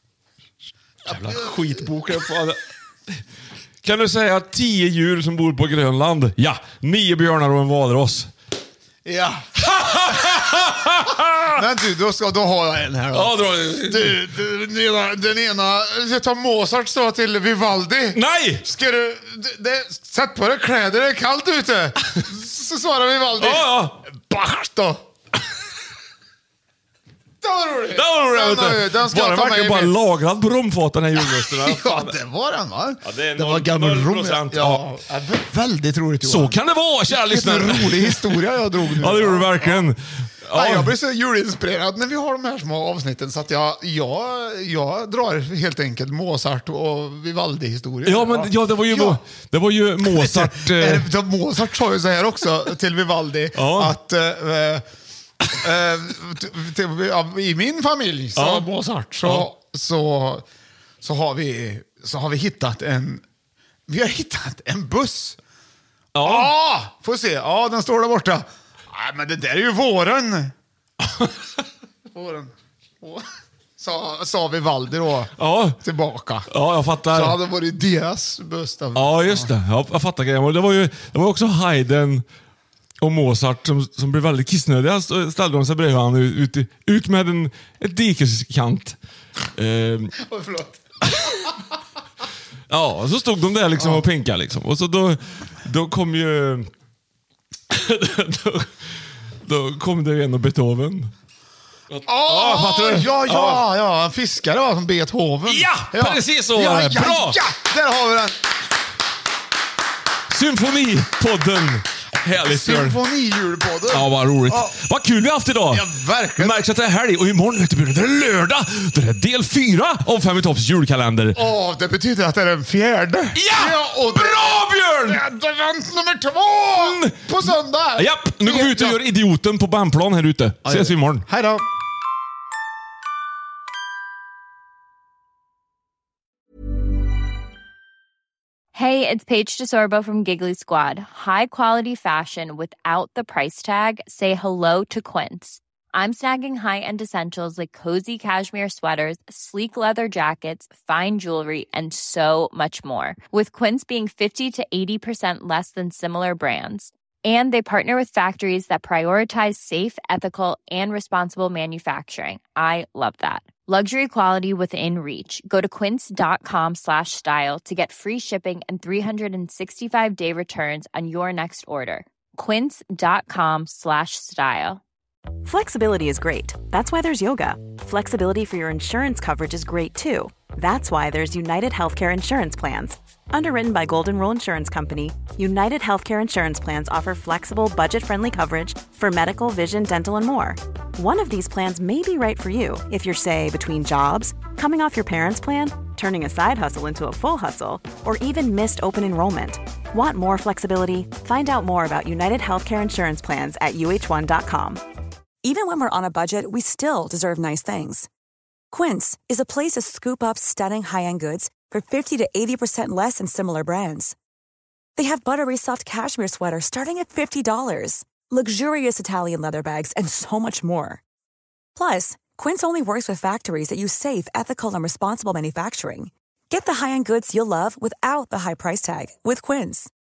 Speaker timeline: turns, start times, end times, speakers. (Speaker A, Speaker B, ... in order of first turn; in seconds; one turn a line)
Speaker A: 1.0-2.6
Speaker A: 3.8-8.3
Speaker B: 9.0-9.4
Speaker A: 9.6-11.6
Speaker B: 10.0-10.4
Speaker B: 11.5-25.0
Speaker A: 13.1-14.2
Speaker A: 18.1-18.6
Speaker A: 23.4-24.0
Speaker B: 27.4-29.9
Speaker A: 27.9-32.1
Speaker B: 31.1-39.8
Speaker A: 33.0-34.9
Speaker A: 36.2-40.9
Speaker B: 40.5-49.2
Speaker A: 48.0-51.1
Speaker B: 50.0-54.8
Speaker A: 53.5-53.9
Speaker B: 55.4-60.4
Speaker A: 58.4-58.7
Speaker B: 61.0-63.2
Speaker B: 63.9-65.4
Speaker A: 66.1-66.5
Speaker B: 66.2-70.5
Speaker B: 72.1-73.2
Speaker B: 73.8-76.5
Speaker A: 75.4-75.8
Speaker A: 76.5-77.4
Speaker B: 77.1-79.5
Speaker A: 79.0-82.2
Speaker A: 83.0-89.0
Speaker A: 89.5-90.2
Speaker B: 90.2-90.8
Speaker A: 91.1-91.3
Speaker A: 92.7-96.7
Speaker A: 97.7-98.7
Speaker A: 99.4-101.1
Speaker A: 101.9-103.6
Speaker B: 102.0-108.4
Speaker A: 105.4-107.4
Speaker A: 110.3-113.0
Speaker B: 112.4-114.7
Speaker A: 113.9-121.4
Speaker B: 115.7-116.6
Speaker B: 121.3-129.0
Speaker A: 123.3-125.2
Speaker A: 126.7-131.2
Speaker B: 130.6-131.6
Speaker C: 138.7-174.8
Speaker D: 175.4-204.8
Speaker E: 205.4-208.1
Speaker E: 208.7-214.2
Speaker E: 214.9-221.0
Speaker E: 221.8-229.9